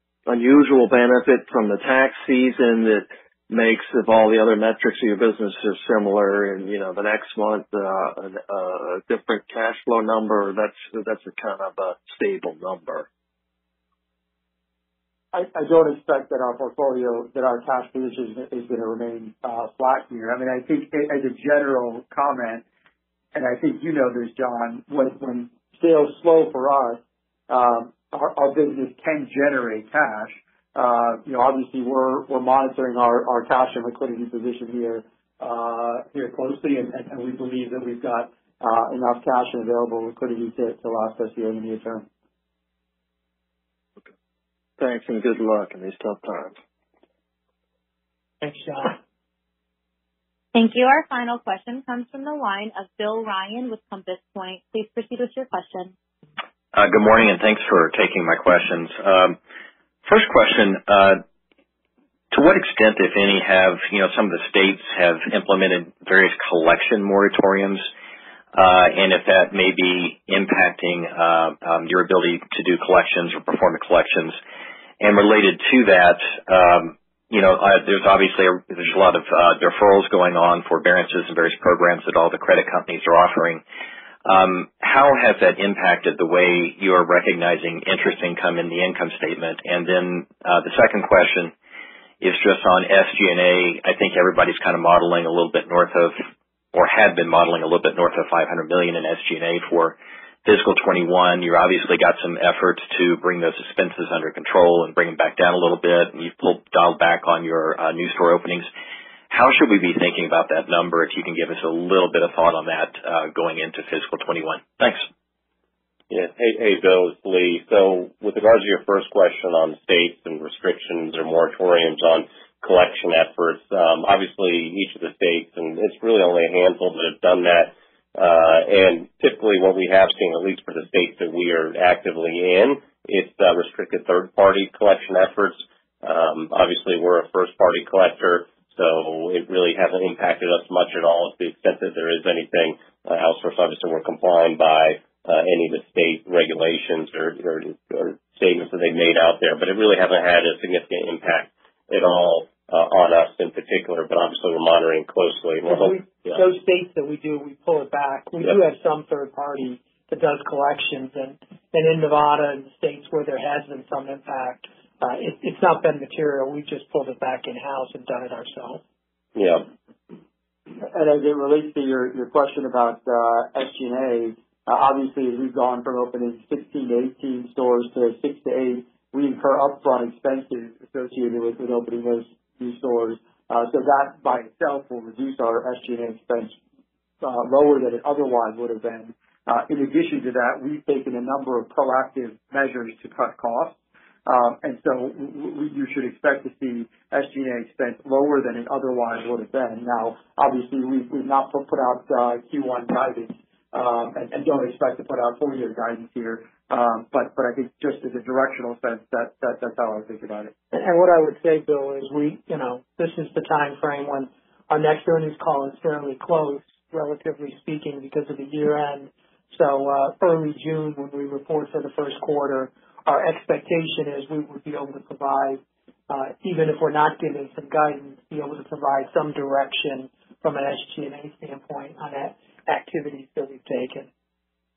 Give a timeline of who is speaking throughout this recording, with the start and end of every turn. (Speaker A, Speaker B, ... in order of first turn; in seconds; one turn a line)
Speaker A: 0.3-13.1
Speaker B: 15.3-22.6
Speaker B: 23.3-42.1
Speaker A: 44.8-46.6
Speaker C: 48.4-49.0
Speaker D: 50.5-55.9
Speaker E: 56.7-59.4
Speaker E: 60.0-61.2
Speaker E: 62.3-67.9
Speaker E: 68.5-74.4
Speaker E: 75.0-83.6
Speaker E: 84.2-91.5
Speaker E: 92.2-108.7
Speaker E: 109.3-115.1
Speaker F: 116.1-156.4
Speaker C: 155.7-168.8
Speaker F: 169.4-169.7
Speaker B: 170.8-186.6
Speaker B: 187.2-210.5
Speaker C: 210.7-234.1